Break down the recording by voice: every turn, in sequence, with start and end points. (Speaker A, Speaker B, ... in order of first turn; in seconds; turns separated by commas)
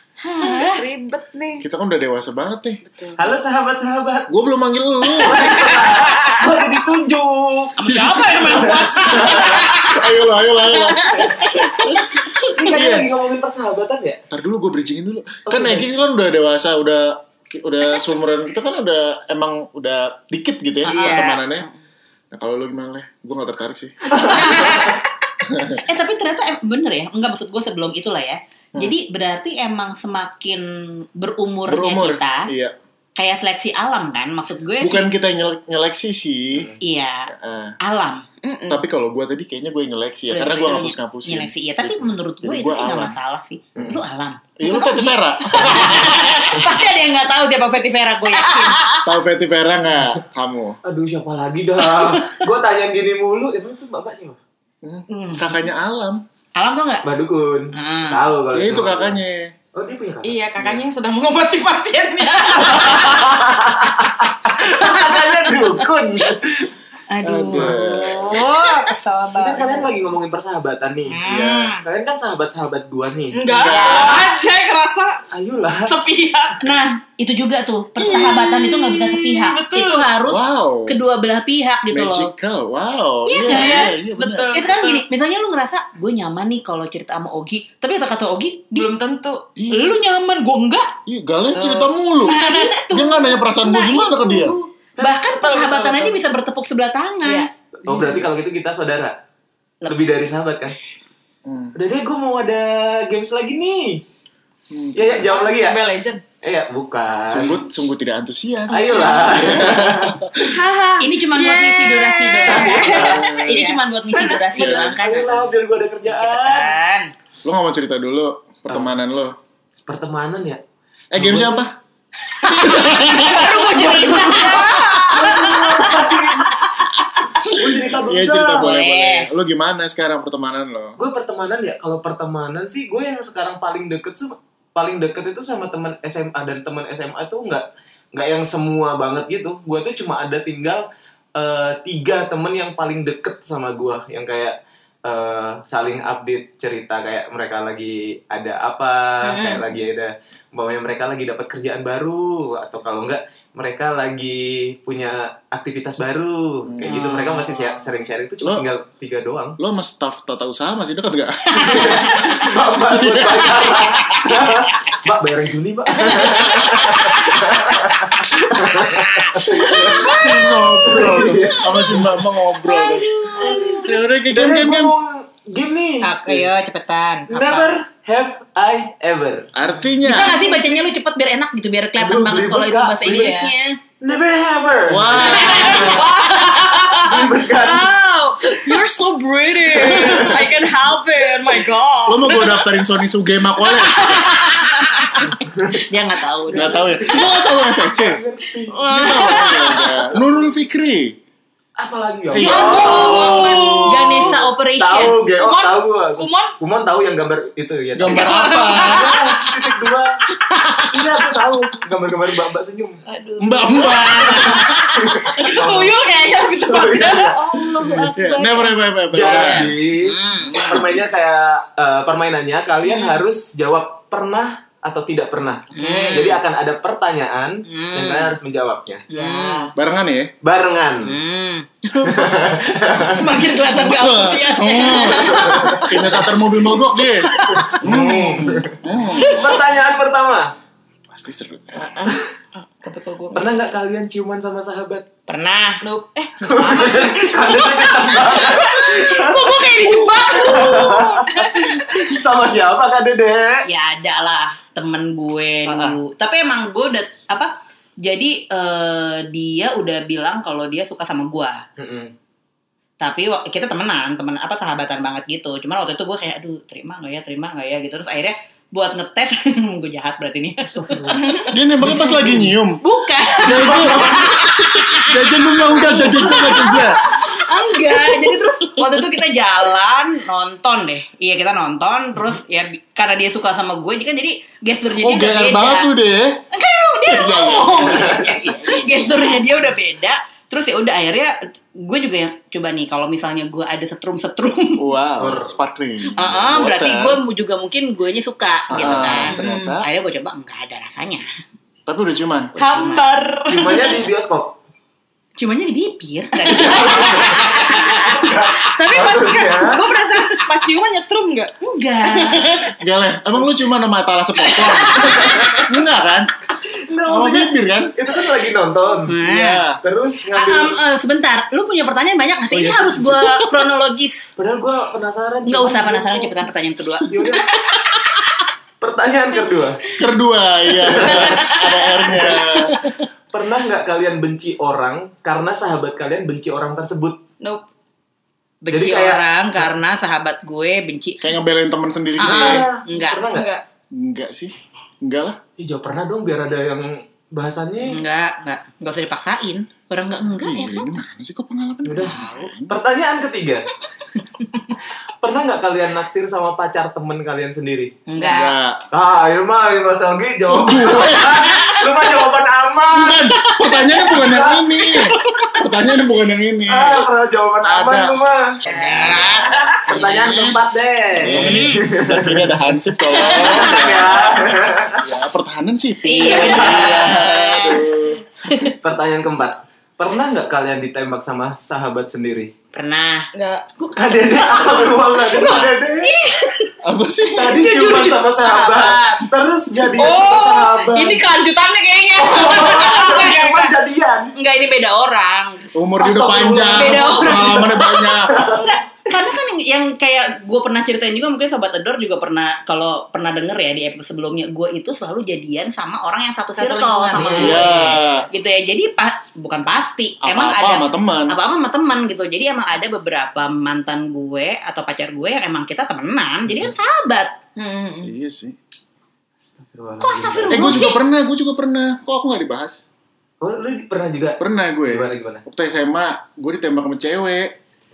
Speaker A: 0.2-0.8, Speaker B: 0.4-1.6, Speaker C: 1.6-2.8, Speaker B: 2.8-3.2, Speaker D: 3.2-4.3, Speaker C: 4.3-5.5, Speaker D: 5.1-9.6, Speaker B: 5.6-6.2, Speaker A: 7.8-10.0, Speaker C: 7.8-11.7, Speaker B: 10.8-11.2, Speaker A: 11.2-12.6, Speaker D: 12.5-14.2, Speaker C: 12.7-13.1, Speaker C: 14.3-21.7, Speaker D: 15.5-15.9, Speaker A: 20.8-21.3, Speaker B: 20.9-21.7, Speaker C: 22.3-24.7, Speaker A: 24.3-25.0, Speaker C: 25.4-25.8, Speaker A: 25.8-32.5, Speaker C: 31.7-32.7, Speaker A: 33.1-35.1, Speaker C: 34.8-36.8, Speaker A: 36.8-38.2, Speaker C: 37.3-37.8, Speaker B: 38.4-38.8, Speaker C: 38.7-43.1, Speaker A: 40.3-48.9, Speaker C: 44.6-46.3, Speaker B: 48.5-49.0, Speaker C: 49.0-50.8, Speaker D: 50.8-54.4, Speaker C: 54.8-56.2, Speaker A: 55.1-55.6, Speaker A: 56.5-57.0, Speaker D: 57.0-59.2, Speaker A: 57.7-58.2, Speaker C: 58.5-59.5, Speaker D: 59.7-60.4, Speaker B: 60.2-63.4, Speaker D: 62.5-66.7, Speaker B: 64.5-66.3, Speaker A: 67.1-69.9, Speaker C: 67.2-68.4, Speaker D: 67.5-67.8, Speaker B: 68.5-68.8, Speaker D: 69.3-73.7, Speaker A: 71.1-71.8, Speaker B: 73.3-75.2, Speaker C: 73.5-74.2, Speaker A: 73.7-74.3, Speaker D: 75.3-75.9, Speaker B: 75.8-76.6, Speaker A: 76.6-82.3, Speaker B: 78.0-80.1, Speaker C: 80.2-81.0, Speaker C: 81.9-84.5, Speaker A: 83.2-83.9, Speaker B: 83.4-85.0, Speaker A: 84.5-88.9, Speaker B: 88.7-89.4, Speaker C: 89.5-90.0, Speaker A: 89.7-90.9, Speaker C: 91.0-94.5, Speaker B: 91.5-91.9, Speaker A: 92.2-97.5, Speaker B: 95.2-96.2, Speaker B: 97.2-97.5, Speaker D: 97.8-99.2, Speaker C: 97.9-98.3, Speaker D: 99.9-100.8, Speaker C: 101.5-101.7, Speaker D: 101.7-104.0, Speaker C: 104.7-105.3, Speaker D: 104.9-105.8, Speaker B: 105.3-106.2, Speaker D: 106.4-107.6, Speaker C: 107.2-110.5, Speaker D: 108.7-110.2, Speaker A: 108.8-109.4, Speaker B: 108.9-109.3, Speaker B: 110.4-114.7, Speaker A: 111.0-117.1, Speaker D: 112.5-113.3, Speaker C: 112.9-113.6, Speaker D: 114.5-116.7, Speaker C: 117.4-119.3, Speaker D: 119.9-120.6, Speaker C: 121.1-121.7, Speaker D: 121.1-121.7, Speaker A: 122.4-126.7, Speaker B: 122.5-125.1, Speaker C: 122.6-123.3, Speaker D: 123.8-126.5, Speaker A: 127.4-127.6, Speaker D: 127.5-128.7, Speaker C: 128.0-131.0, Speaker A: 128.6-129.3, Speaker D: 131.0-159.6, Speaker B: 149.2-149.7, Speaker C: 156.7-157.0, Speaker A: 156.9-157.6, Speaker C: 158.4-158.7, Speaker C: 159.6-163.7, Speaker A: 161.6-162.5, Speaker D: 161.6-170.3, Speaker A: 163.5-164.5, Speaker A: 166.2-167.8, Speaker A: 168.6-171.4, Speaker C: 169.6-173.1, Speaker D: 170.8-172.2, Speaker A: 172.6-173.9, Speaker D: 173.4-176.5, Speaker C: 173.8-174.9, Speaker A: 176.0-177.7, Speaker D: 177.3-179.8, Speaker C: 179.5-180.4, Speaker A: 180.0-183.8, Speaker D: 182.0-183.3, Speaker B: 183.0-183.5, Speaker D: 184.0-186.1, Speaker C: 184.9-186.1, Speaker A: 185.1-186.0, Speaker B: 185.2-192.8, Speaker D: 186.9-187.9, Speaker D: 189.7-190.6, Speaker C: 192.1-194.2, Speaker B: 193.7-195.1, Speaker A: 194.0-196.9, Speaker D: 195.4-195.9, Speaker D: 196.5-199.1, Speaker C: 196.5-198.2, Speaker A: 198.7-199.9, Speaker C: 198.9-201.2, Speaker B: 199.1-199.8, Speaker D: 201.8-210.2, Speaker C: 202.3-203.4, Speaker A: 202.4-205.2, Speaker B: 202.4-204.4, Speaker B: 205.4-206.5, Speaker C: 207.9-209.2, Speaker B: 208.1-209.2, Speaker A: 210.4-211.5, Speaker D: 210.9-213.0, Speaker A: 213.1-215.5, Speaker C: 213.4-214.8, Speaker D: 214.3-218.1, Speaker B: 215.4-218.2, Speaker A: 217.4-218.7, Speaker C: 217.9-219.8, Speaker D: 219.1-229.5, Speaker A: 219.2-221.0, Speaker B: 222.8-223.2, Speaker A: 225.7-226.4, Speaker A: 227.7-228.3, Speaker A: 229.1-229.7, Speaker B: 229.1-229.6, Speaker C: 229.7-230.3, Speaker D: 230.4-231.2, Speaker A: 231.0-232.4, Speaker D: 232.0-233.5, Speaker A: 233.1-236.3, Speaker C: 233.6-239.4, Speaker D: 235.2-236.3, Speaker A: 237.0-238.5, Speaker D: 237.5-240.5, Speaker B: 239.2-239.6, Speaker C: 241.1-242.0, Speaker A: 241.8-242.2, Speaker A: 242.8-243.5, Speaker D: 243.3-245.0, Speaker A: 245.3-245.8, Speaker B: 245.8-246.9, Speaker D: 246.4-253.7, Speaker A: 246.5-251.1, Speaker B: 247.8-251.6, Speaker A: 253.6-261.6, Speaker D: 261.8-262.1, Speaker A: 263.0-271.5, Speaker D: 270.7-272.5, Speaker B: 271.1-271.5, Speaker C: 271.5-272.8, Speaker A: 272.8-285.9, Speaker C: 273.4-277.0, Speaker D: 273.5-274.3, Speaker B: 276.1-276.5, Speaker B: 277.3-278.7, Speaker C: 285.0-286.4, Speaker A: 286.5-294.9, Speaker C: 287.1-289.4, Speaker D: 287.8-288.2, Speaker C: 294.8-297.2, Speaker D: 295.2-295.6, Speaker A: 296.1-301.2, Speaker D: 298.7-299.2, Speaker C: 298.7-299.9, Speaker B: 299.3-299.8, Speaker C: 301.9-302.6, Speaker B: 302.6-304.1, Speaker A: 302.6-303.1, Speaker D: 303.5-304.6, Speaker A: 305.4-308.4, Speaker D: 306.5-309.9, Speaker B: 308.2-312.7, Speaker A: 311.6-312.7, Speaker C: 312.7-316.3, Speaker B: 314.6-315.5, Speaker D: 314.9-315.7, Speaker D: 316.6-319.2, Speaker C: 317.0-317.9, Speaker A: 319.1-319.6, Speaker C: 319.2-319.8, Speaker D: 319.8-320.8, Speaker A: 320.3-324.3, Speaker D: 322.5-323.1, Speaker C: 323.0-323.5, Speaker D: 324.4-326.5, Speaker A: 325.4-327.4, Speaker D: 327.1-327.9, Speaker D: 328.8-329.9, Speaker C: 330.0-332.8, Speaker D: 330.9-331.6, Speaker A: 331.0-331.5, Speaker B: 331.1-331.7, Speaker D: 332.1-332.4, Speaker A: 332.2-333.0, Speaker D: 333.3-337.2, Speaker B: 337.4-337.6, Speaker A: 338.6-341.2, Speaker D: 338.7-339.6, Speaker C: 341.2-342.6, Speaker A: 342.2-343.2, Speaker D: 342.2-343.5, Speaker B: 343.3-343.6, Speaker C: 343.9-345.4, Speaker D: 345.6-348.0, Speaker A: 347.8-350.9, Speaker C: 350.4-352.7, Speaker D: 351.8-353.7, Speaker D: 355.2-358.0, Speaker A: 358.1-358.5, Speaker C: 358.1-358.8, Speaker D: 358.9-363.3, Speaker C: 360.5-361.8, Speaker C: 362.9-367.1, Speaker D: 364.1-364.8, Speaker D: 366.7-375.1, Speaker C: 367.6-368.2, Speaker A: 368.6-370.5, Speaker B: 368.7-369.2, Speaker C: 369.1-370.6, Speaker C: 371.2-378.2, Speaker A: 371.2-371.8, Speaker A: 373.2-373.8, Speaker A: 376.0-378.8, Speaker D: 376.2-377.4, Speaker D: 378.8-382.5, Speaker A: 382.7-383.3, Speaker B: 383.3-383.9, Speaker D: 383.9-386.1, Speaker B: 385.3-386.5, Speaker A: 385.4-385.7, Speaker A: 386.2-386.5, Speaker C: 386.8-387.7, Speaker D: 387.3-391.2, Speaker A: 387.5-389.2, Speaker B: 389.9-393.7, Speaker D: 392.1-394.3, Speaker A: 394.4-395.6, Speaker C: 395.7-398.3, Speaker D: 396.0-398.8, Speaker A: 396.7-417.4, Speaker B: 406.6-407.8, Speaker D: 407.1-407.9, Speaker C: 407.4-408.3, Speaker C: 410.2-411.4, Speaker B: 417.6-418.1, Speaker C: 418.0-418.6, Speaker D: 419.4-420.9, Speaker A: 420.0-421.0, Speaker C: 420.5-422.8, Speaker D: 423.4-425.4, Speaker C: 424.4-427.6